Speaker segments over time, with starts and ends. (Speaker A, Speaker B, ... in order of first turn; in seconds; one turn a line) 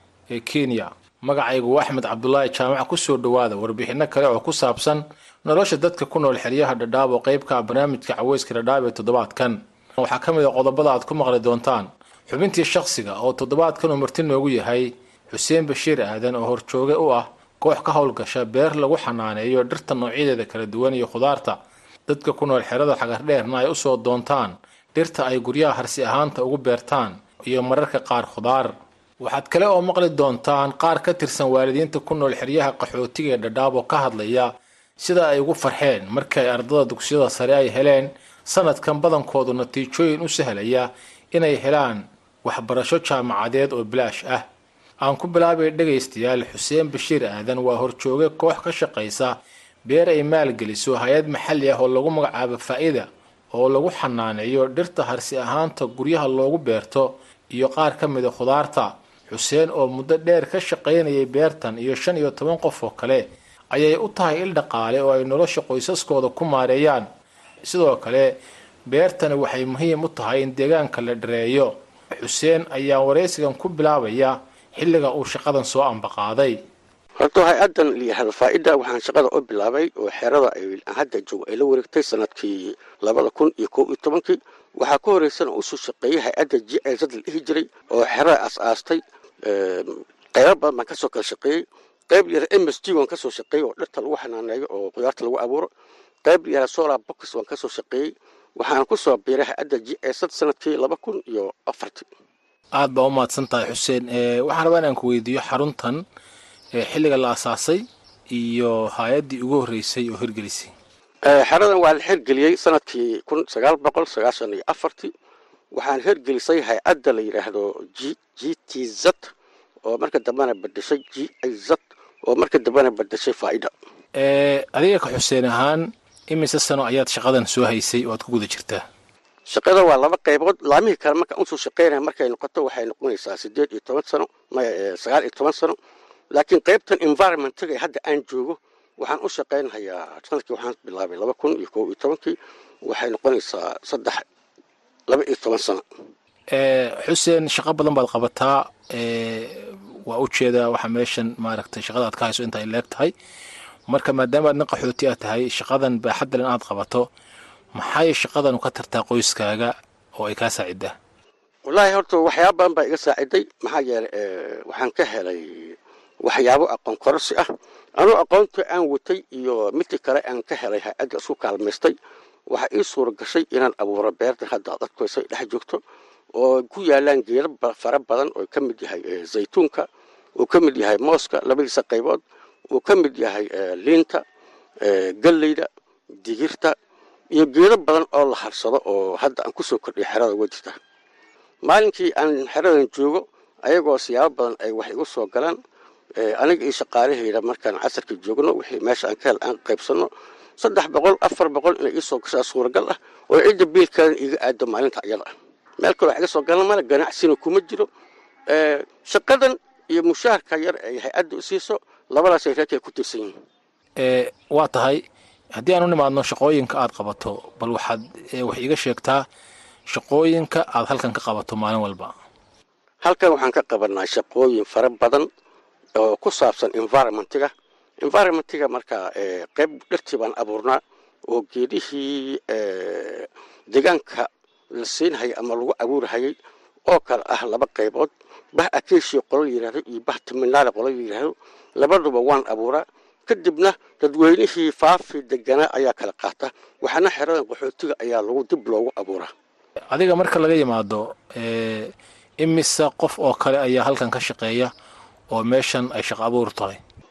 Speaker A: 0.3-44.5
Speaker A: 45.0-67.1
Speaker A: 67.6-68.3
Speaker A: 68.9-76.6
Speaker B: 77.2-95.7
Speaker B: 96.2-102.1
Speaker A: 102.7-106.0
Speaker A: 106.7-110.7
Speaker B: 111.2-115.1
Speaker B: 115.7-119.3
Speaker B: 119.8-123.7
Speaker A: 124.1-128.8
Speaker B: 129.5-135.8
Speaker B: 136.3-144.2
Speaker B: 145.1-145.8
Speaker A: 146.5-153.1
Speaker A: 153.9-157.1
Speaker A: 157.7-160.9
Speaker B: 161.7-171.9
Speaker B: 172.5-175.8
Speaker B: 176.3-179.9
Speaker B: 180.4-182.2
Speaker B: 182.7-184.2
Speaker B: 184.8-185.7
Speaker B: 186.2-186.7
Speaker B: 187.3-190.8
Speaker B: 191.6-195.6
Speaker B: 196.2-205.3
Speaker B: 205.8-207.9
Speaker B: 208.5-213.3
Speaker A: 214.0-215.0
Speaker A: 215.5-219.2
Speaker A: 219.9-222.1
Speaker B: 223.0-225.3
Speaker B: 226.0-227.5
Speaker B: 228.0-236.3
Speaker B: 236.9-249.3
Speaker A: 249.9-254.7
Speaker A: 255.3-256.8